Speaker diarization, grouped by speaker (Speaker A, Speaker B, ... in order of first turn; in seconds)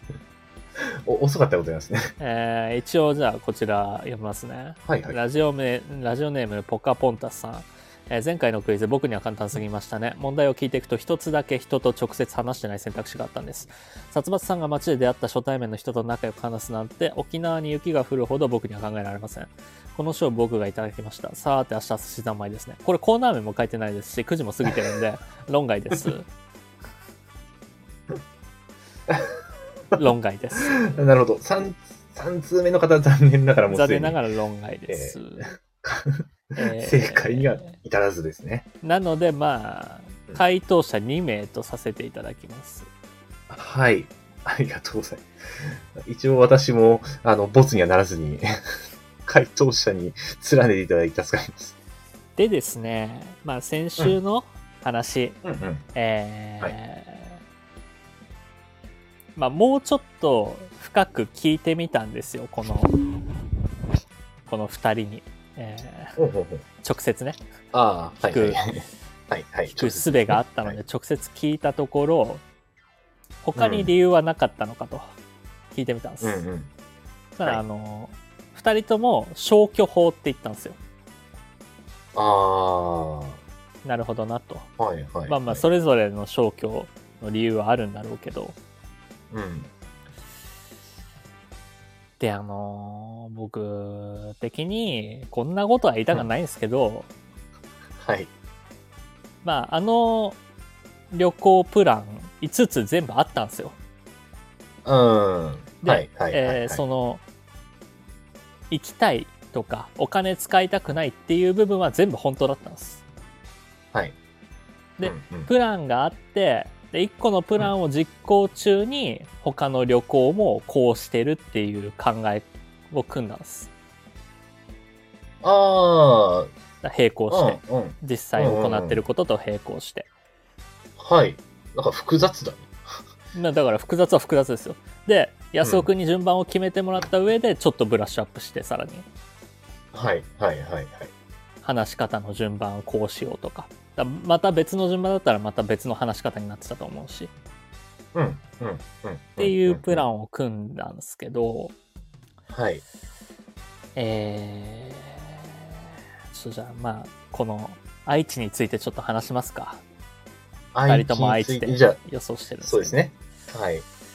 Speaker A: 0.8-2.1, 4.9-5.2, 30.6-34.2, 34.9-38.6, 43.5-48.5, 49.2-51.7, 55.4-55.8, 66.2-66.6, 67.7-70.8, 73.5-73.9, 76.2-76.7, 82.1-83.4, 84.8-85.6, 89.3-89.7, 98.0-98.3, 104.8-106.8, 115.0-115.5, 125.4-126.5, 127.3-129.0, 131.0-132.7, 135.6-135.9, 139.9-141.1, 148.1-150.0, 152.5-152.8, 160.7-162.0, 162.6-163.8
Speaker B: 2.2-26.3, 29.9-30.9, 33.7-35.5, 36.5-37.8, 38.8-42.9, 52.4-55.4, 55.9-57.4, 59.4-63.0, 64.5-66.2, 66.8-67.4, 68.2-68.6, 69.7-72.4, 73.4-75.1, 75.7-76.4, 77.3-80.8, 83.8-84.7, 85.3-88.5, 92.2-97.1, 99.4-100.4, 101.1-103.8, 105.8-107.2, 108.7-113.0, 115.0-123.7, 126.8-130.1, 133.3-139.1, 141.6-147.3, 149.4-151.7, 153.9-155.7, 156.3-159.8, 160.9-163.0